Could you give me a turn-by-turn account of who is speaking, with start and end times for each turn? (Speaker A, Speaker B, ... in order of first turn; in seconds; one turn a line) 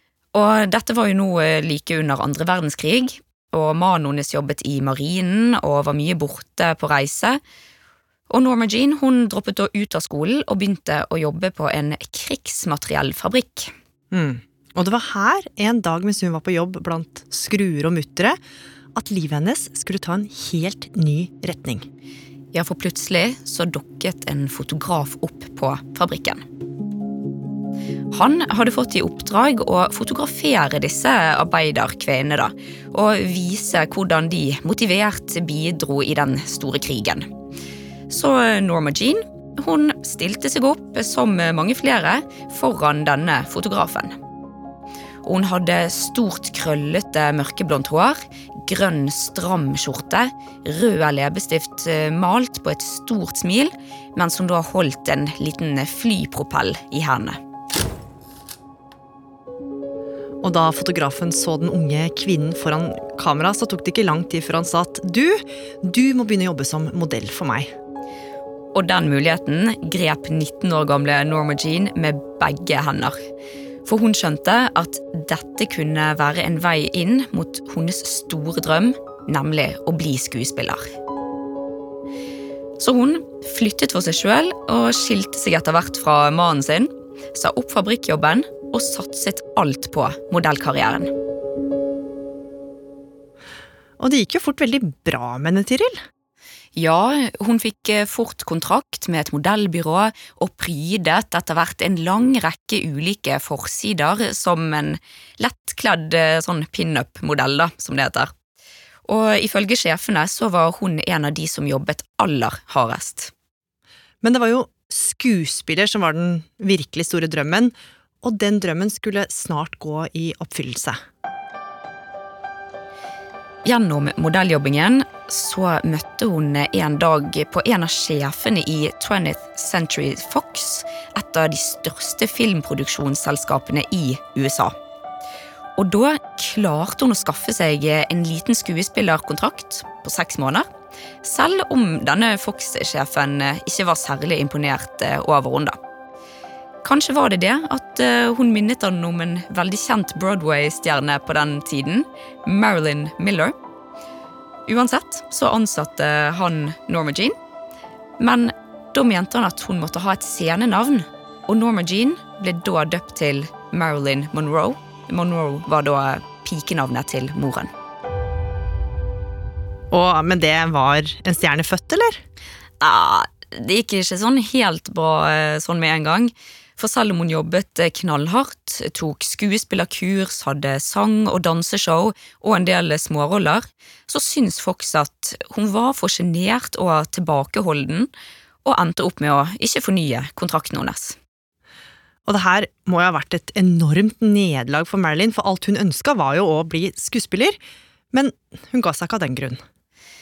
Speaker A: 0.3-7.4
Speaker A: 8.3-13.7
Speaker B: 14.1-18.4
Speaker B: 18.9-21.9
Speaker A: 22.5-26.4
Speaker A: 28.1-37.3
Speaker A: 38.1-44.2
Speaker A: 45.2-57.4
Speaker B: 60.4-67.7
Speaker A: 68.7-73.2
Speaker A: 73.8-80.9
Speaker A: 82.8-91.1
Speaker B: 94.0-96.0
Speaker A: 96.8-108.3
Speaker A: 109.1-113.3
Speaker B: 114.2-121.0
Speaker A: 123.7-134.7
Speaker A: 135.8-140.7
Speaker A: 141.2-145.8
Speaker A: 146.8-153.6
Speaker A: 154.7-157.4
Speaker A: 158.2-167.7
Speaker B: 169.9-172.2
Speaker A: 172.8-188.1
Speaker A: 188.6-191.2
Speaker B: 192.3-197.6
Speaker B: 198.1-199.6